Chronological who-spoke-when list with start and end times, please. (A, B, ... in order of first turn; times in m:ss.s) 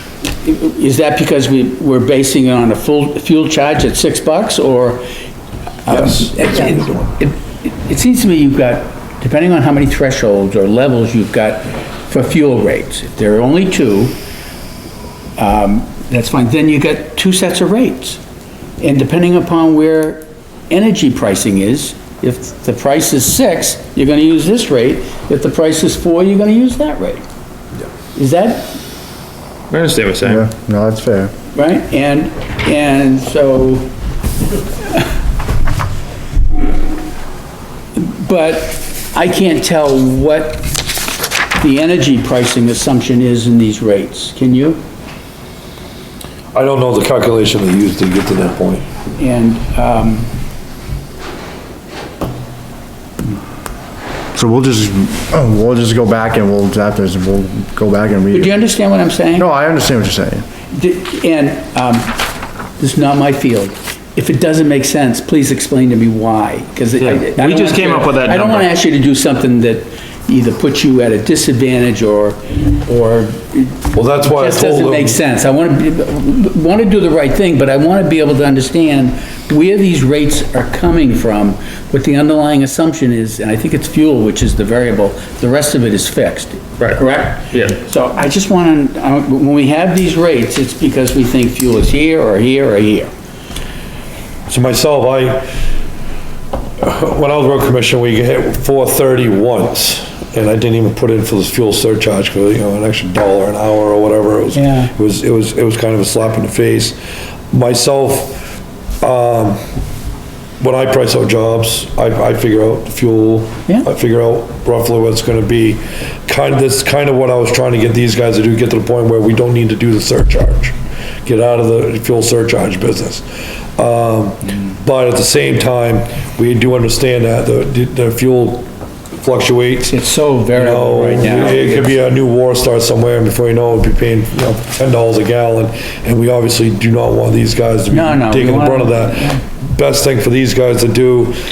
0:00.4-0:05.0 A
0:05.9-0:14.2 A
0:05.9-0:07.0 B
0:15.4-0:18.2 A
0:18.8-0:27.2 A
0:28.2-0:28.8 A
0:29.7-0:30.4 C
0:30.2-0:31.3 D
0:31.5-0:33.9 A
0:38.0-0:40.8 A
0:41.6-0:44.8 A
0:46.5-0:48.8 B
0:49.2-0:50.3 A
0:54.4-0:58.6 D
0:58.3-0:59.5 A
0:59.4-1:00.4 D
1:00.7-1:02.2 A
1:02.8-1:33.1 A
1:07.0-1:08.6 C
1:13.9-1:15.2 B
1:34.5-1:35.4 B
1:36.8-1:47.0 B
1:44.5-1:44.9 A
1:47.5-1:48.4 B
1:49.0-1:49.6 B
1:50.6-2:00.7 B
2:01.2-2:03.2 B
2:03.8-2:08.7 B
2:09.2-2:10.0 B
2:09.9-2:12.0 A
2:10.6-2:21.4 B
2:17.9-2:19.4 A